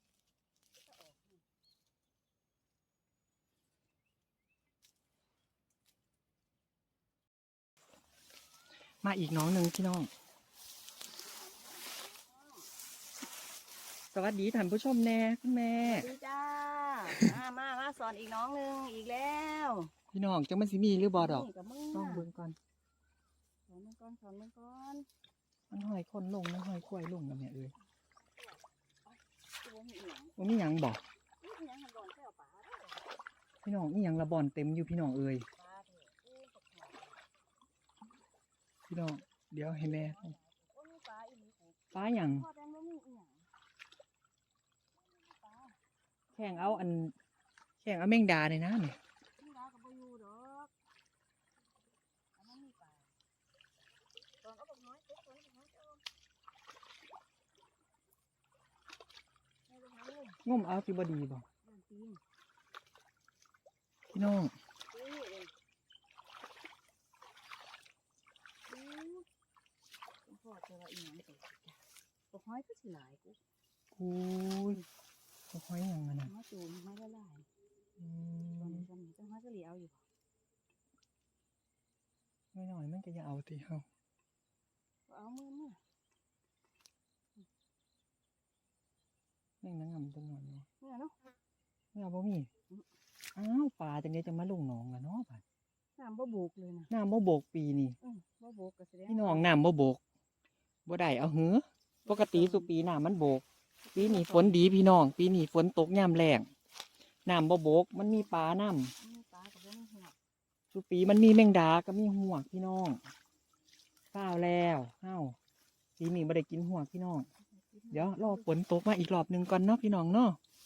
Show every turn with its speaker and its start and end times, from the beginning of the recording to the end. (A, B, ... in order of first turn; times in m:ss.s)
0:00.7-0:01.4 A
0:09.0-0:10.1 B
0:11.2-0:12.7 A
0:14.1-0:16.1 B
0:15.8-0:19.9 A
0:20.1-0:22.6 B
0:21.1-0:22.3 A
0:23.7-0:25.1 A
0:25.7-0:27.7 B
0:28.2-0:30.4 A
0:30.4-0:31.0 B
0:31.4-0:33.1 A
0:33.6-0:35.5 B
0:35.6-0:37.2 A
0:38.9-0:40.4 B
0:39.8-0:43.5 A
0:41.9-0:42.5 B
0:45.0-0:45.8 A
0:46.4-0:47.2 B
0:46.4-0:46.9 A
0:47.8-0:49.0 B
0:49.4-0:50.7 A
0:52.4-0:53.2 A
0:54.4-0:56.0 A
0:59.7-1:00.4 A
1:00.4-1:01.5 B
1:01.6-1:02.2 A
1:04.1-1:04.6 B
1:04.9-1:05.5 A
1:08.7-1:09.3 A
1:10.2-1:13.4 A
1:13.9-1:14.8 B
1:15.5-1:16.3 B
1:16.2-1:17.5 A
1:18.0-1:18.9 B
1:18.6-1:20.0 A
1:22.5-1:23.9 B
1:25.1-1:25.8 A
1:29.6-1:30.7 B
1:30.8-1:31.2 A
1:31.9-1:32.5 B
1:33.4-1:35.4 B
1:36.0-1:36.9 A
1:36.9-1:38.0 B
1:38.0-1:39.6 A
1:39.1-1:40.0 B
1:40.9-1:43.4 B
1:42.1-1:42.7 A
1:43.8-1:44.6 A
1:44.0-1:46.5 B
1:47.2-1:48.9 B
1:48.1-1:50.2 A
1:50.7-1:53.0 B
1:54.1-1:55.4 B
1:56.0-1:57.3 B
1:57.4-1:58.5 A
1:57.9-2:00.4 B